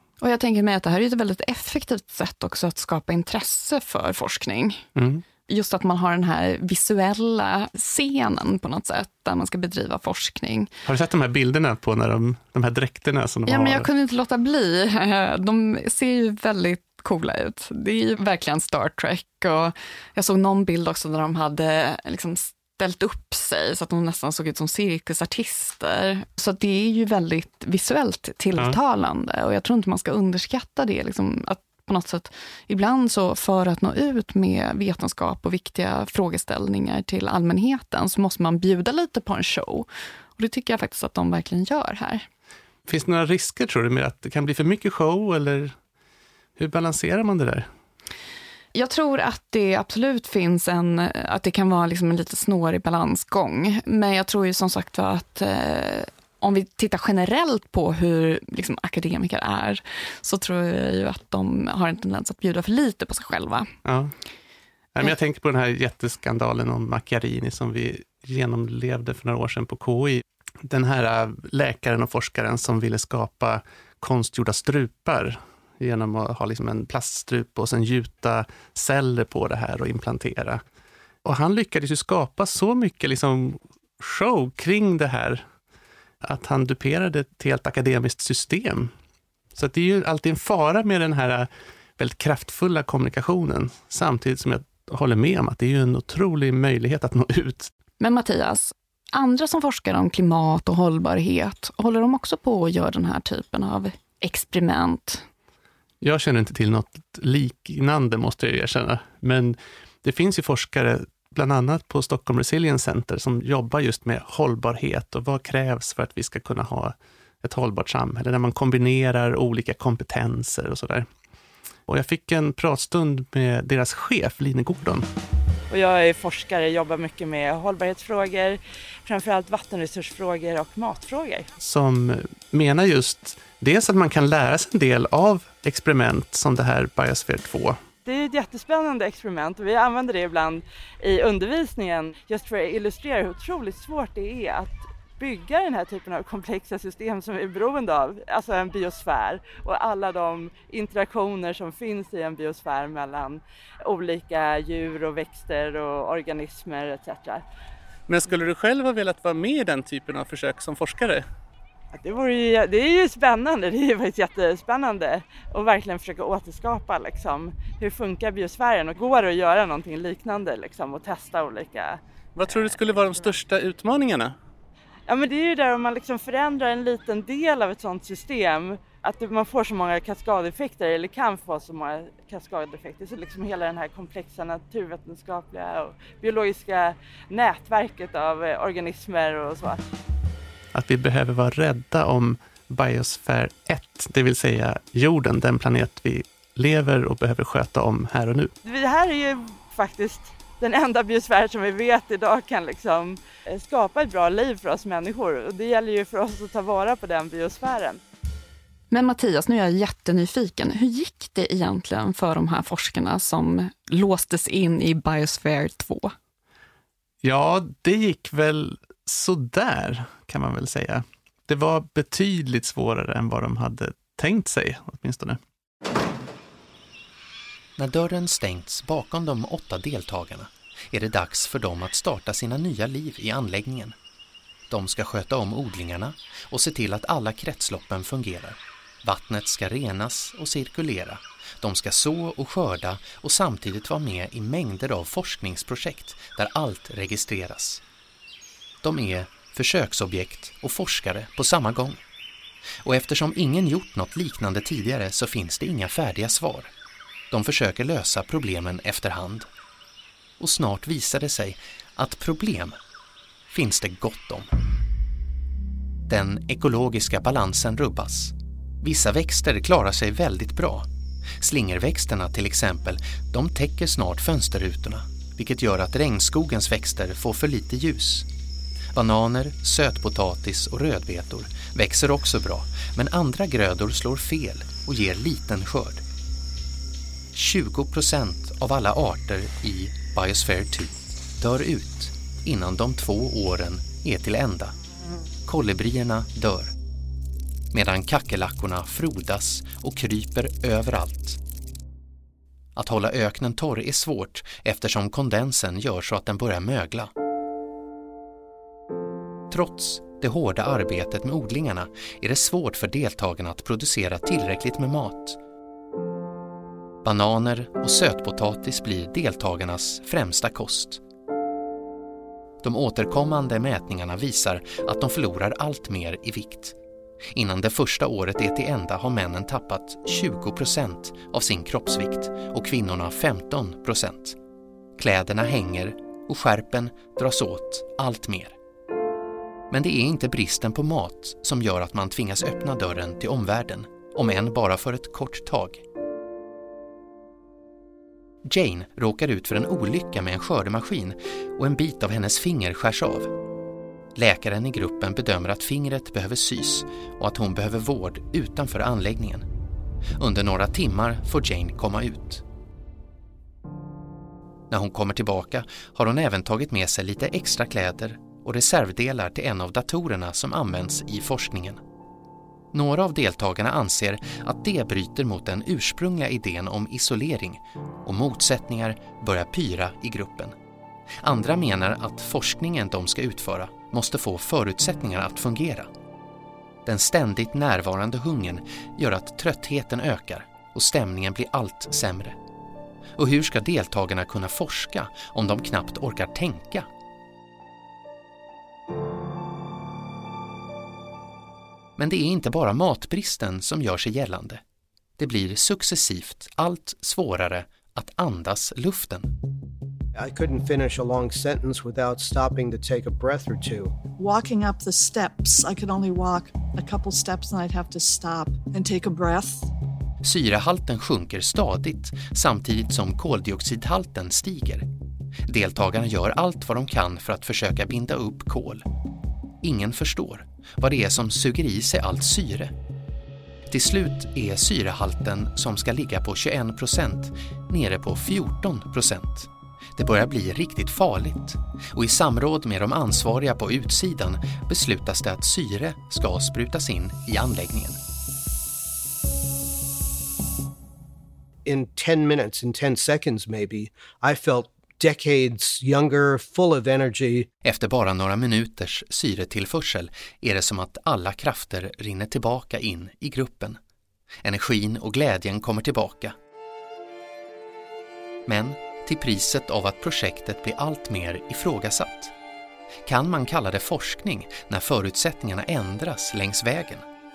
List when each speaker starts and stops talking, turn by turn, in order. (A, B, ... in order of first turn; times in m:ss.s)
0:00.2-0:04.9 A
0:05.0-0:05.2 B
0:05.5-0:10.7 A
0:10.8-0:13.9 B
0:13.5-0:42.2 A
0:42.9-0:45.8 B
0:46.6-0:47.7 B
0:48.7-1:03.7 A
1:03.8-1:04.1 B
1:04.9-1:20.6 B
1:21.2-1:25.4 B
1:26.2-1:28.9 B
1:29.6-1:37.7 B
1:38.0-1:45.2 A
1:46.0-2:01.1 B
2:01.9-2:05.1 B
2:05.7-2:11.5 C
2:11.6-2:17.8 B
2:18.0-2:37.4 C
2:38.1-2:41.2 B
2:41.9-2:53.1 C
2:52.4-2:54.4 B
2:55.1-3:09.8 C
3:10.7-3:18.5 B
3:18.6-3:28.0 C
3:28.9-3:36.1 A
3:37.2-3:45.4 B
3:47.8-3:54.0 D
3:54.7-4:07.8 D
4:08.8-4:12.0 D
4:12.8-4:16.7 D
4:17.3-4:19.5 D
4:20.4-4:22.8 D
4:23.5-4:24.5 D
4:26.1-4:30.9 D
4:31.4-4:38.3 D
4:38.9-4:46.0 D
4:47.3-4:54.7 D
4:55.4-4:56.8 D
4:57.7-5:01.4 D
5:02.8-5:07.1 D
5:09.5-5:15.4 D
5:17.0-5:21.0 D
5:22.6-5:26.8 D
5:27.3-5:34.4 D
5:35.0-5:38.6 D
5:39.7-5:45.8 D
5:48.4-5:53.3 D
5:54.2-5:59.5 D
6:00.2-6:02.4 D
6:04.7-6:11.8 D
6:12.7-6:20.6 D
6:21.2-6:25.9 D
6:26.8-6:32.4 D
6:33.2-6:36.9 D
6:42.0-6:44.6 D
6:45.2-6:49.3 D
6:50.2-6:54.0 E
6:54.2-6:59.7 F
7:00.2-7:04.9 D
7:05.4-7:08.8 D
7:09.6-7:12.7 D
7:13.7-7:28.0 D
7:31.6-7:37.5 E
7:37.6-7:43.8 D
7:44.4-7:46.4 D
7:48.4-7:52.3 D
7:53.0-7:57.1 D